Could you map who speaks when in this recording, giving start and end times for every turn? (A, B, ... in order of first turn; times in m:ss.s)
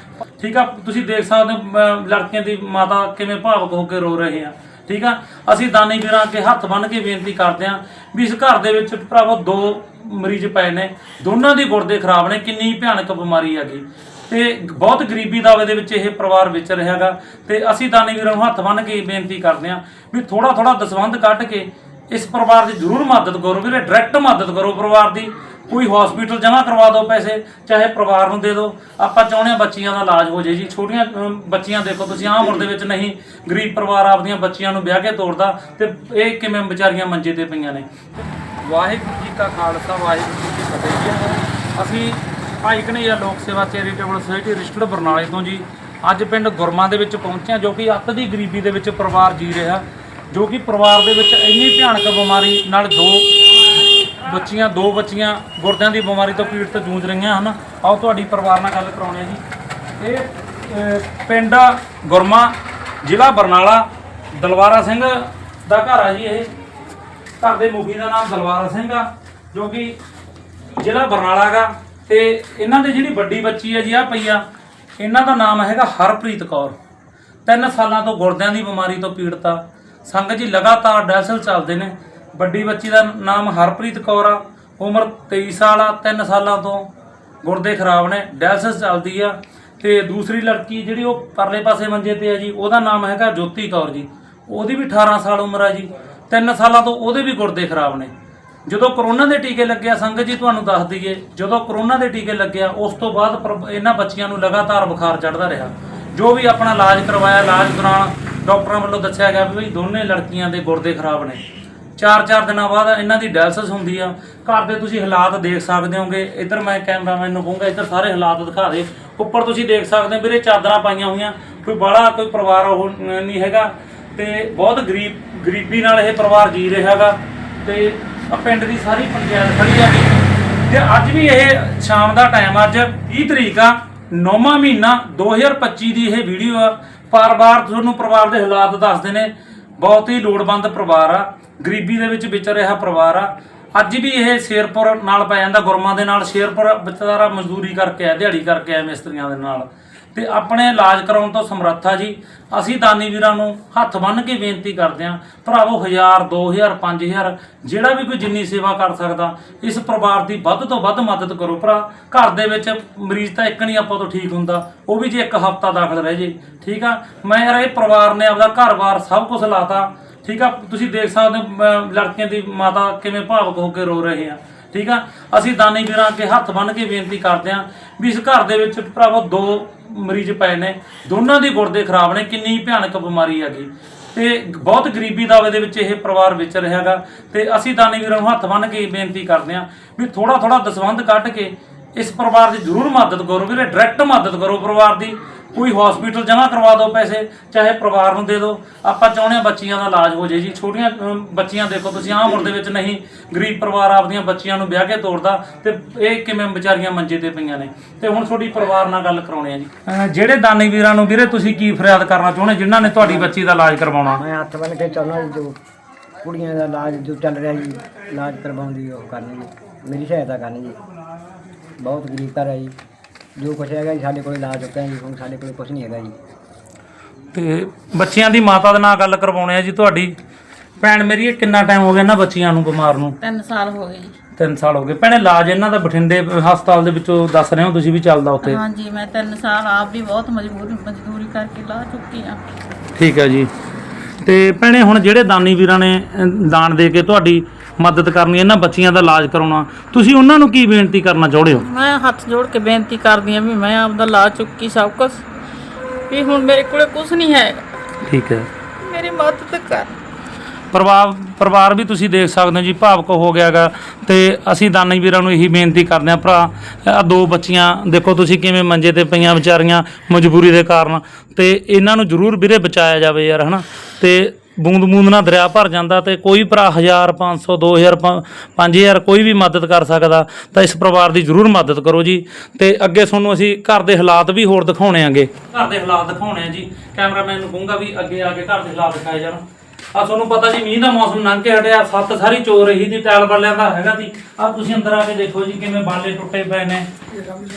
0:00.4-0:38.0 A
0:38.6-0:59.4 A
1:00.0-1:06.5 A
1:07.4-1:10.0 A
1:10.8-1:14.4 A
1:15.0-1:16.8 A
1:17.5-1:26.9 A
1:27.4-1:38.1 A
1:38.7-1:51.4 A
1:52.0-3:34.2 A
3:32.9-3:33.3 B
3:34.2-3:35.6 B
3:36.2-3:40.8 B
3:41.8-3:42.7 B
3:43.4-3:46.2 B
3:47.3-3:50.2 A
3:50.8-3:53.2 A
3:53.2-3:54.2 C
3:54.4-3:58.6 A
3:58.4-4:02.4 C
4:02.9-4:03.5 A
4:04.2-4:11.7 A
4:11.5-4:15.3 C
4:16.1-4:17.8 C
4:18.0-4:18.5 A
4:18.8-4:20.0 C
4:20.7-4:49.4 A
4:49.9-4:56.9 A